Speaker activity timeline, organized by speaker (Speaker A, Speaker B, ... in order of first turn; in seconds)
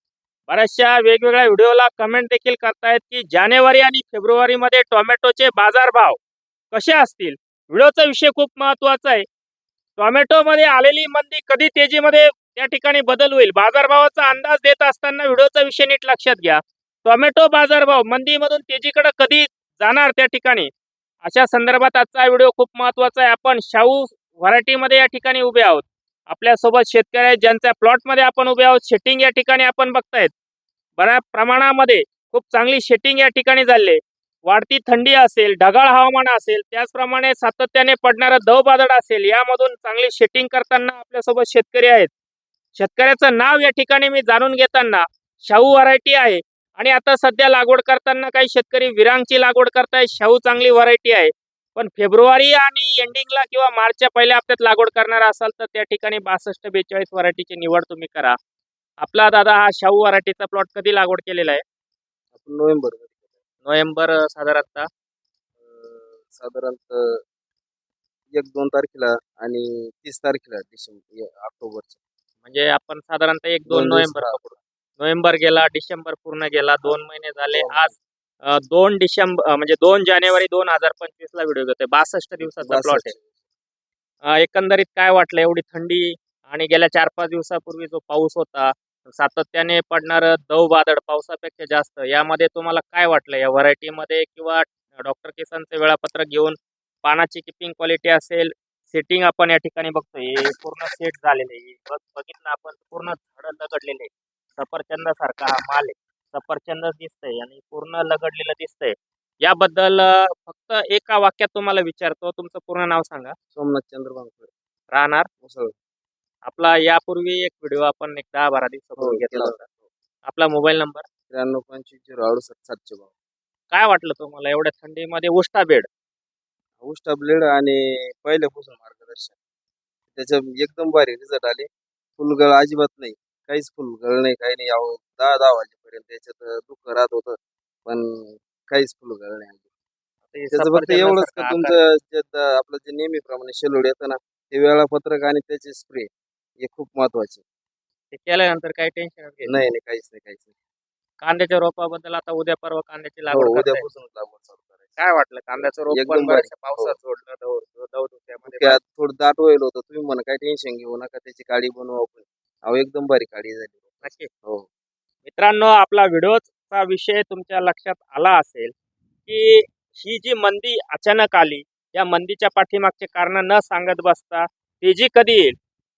Speaker A: 0.5-6.2, 6.7-9.2, 10.0-20.7, 21.2-30.3, 31.0-42.1, 42.8-58.4, 59.0-61.6, 63.6-64.9, 72.4-83.1, 84.2-113.3, 114.9-115.3, 116.4-119.7, 120.2-121.0, 123.7-125.9, 140.3-141.7, 148.1-149.5, 151.2-153.8, 155.0-158.8, 164.0-164.3, 165.2-168.7, 169.2-175.6
Speaker B: 62.3-63.3, 65.6-67.2, 68.3-72.0, 73.7-74.5, 77.5-78.0, 82.4-83.3, 113.5-114.5, 115.4-115.7, 119.0-119.8, 121.3-123.1, 126.8-129.4, 130.1-139.6, 140.5-147.4, 149.4-150.5, 153.3-155.0, 155.6-156.9, 158.4-164.7